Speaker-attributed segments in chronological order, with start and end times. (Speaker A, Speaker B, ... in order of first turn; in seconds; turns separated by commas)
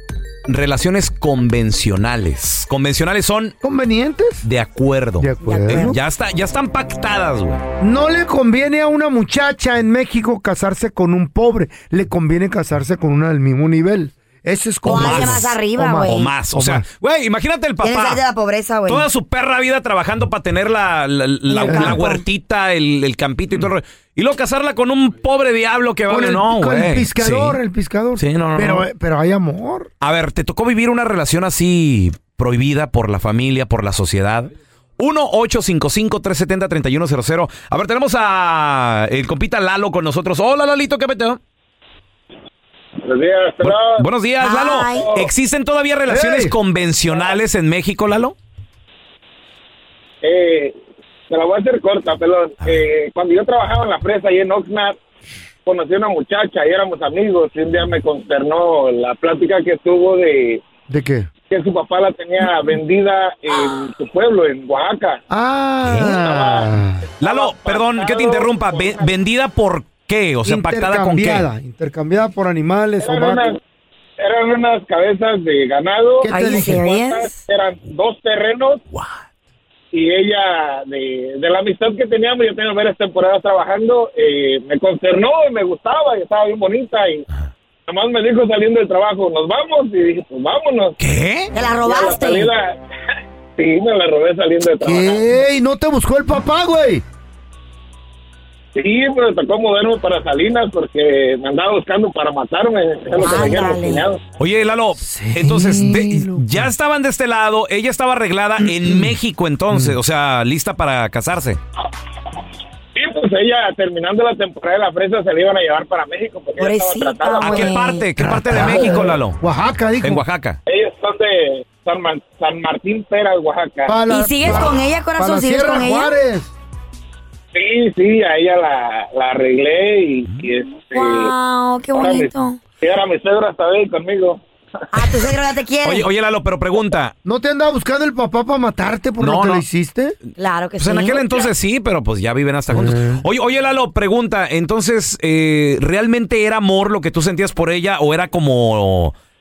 Speaker A: 0.5-3.5, Speaker B: 3.6-4.5, Speaker A: 4.4-7.6, Speaker B: 5.2-6.0, Speaker C: 5.4-5.9, Speaker B: 7.8-16.8, Speaker A: 14.8-15.5, Speaker C: 14.8-16.3, Speaker A: 16.0-18.2, Speaker C: 17.8-19.1, Speaker A: 18.9-27.6, Speaker C: 21.5-22.2, Speaker B: 21.6-22.0, Speaker B: 26.1-29.9, Speaker A: 28.2-28.9, Speaker A: 30.0-41.4, Speaker D: 43.0-44.0, Speaker A: 43.6-48.3, Speaker C: 44.4-45.1, Speaker D: 45.0-45.3, Speaker B: 46.1-46.5, Speaker D: 50.2-50.7, Speaker D: 51.3-55.0, Speaker D: 55.6-60.6, Speaker B: 60.9-61.3, Speaker D: 61.5-65.2, Speaker B: 65.3-67.0, Speaker A: 65.8-66.2, Speaker D: 66.1-69.1, Speaker A: 67.2-71.5, Speaker B: 70.4-73.6, Speaker D: 73.0-73.6, Speaker D: 74.2-78.8, Speaker B: 76.2-76.8, Speaker C: 76.3-77.4, Speaker D: 79.9-87.2, Speaker D: 87.9-91.0, Speaker A: 91.0-91.5, Speaker C: 91.5-92.5, Speaker D: 91.8-92.8, Speaker D: 93.6-95.3, Speaker B: 94.8-97.0, Speaker D: 98.7-104.2, Speaker C: 103.2-104.0, Speaker A: 104.4-111.6, Speaker B: 105.0-106.7, Speaker B: 108.7-109.1, Speaker B: 109.7-110.0, Speaker D: 113.0-117.7, Speaker C: 116.6-118.0, Speaker A: 117.4-119.4, Speaker B: 118.2-120.2, Speaker A: 120.0-120.6, Speaker D: 120.7-124.0, Speaker B: 123.9-126.5, Speaker C: 124.1-126.2, Speaker D: 127.5-131.3, Speaker C: 130.9-132.6, Speaker D: 131.9-134.4, Speaker C: 134.9-136.1, Speaker A: 135.8-137.1, Speaker B: 137.2-140.2, Speaker A: 139.2-139.6, Speaker C: 140.4-141.5, Speaker A: 140.8-149.1, Speaker B: 142.7-143.2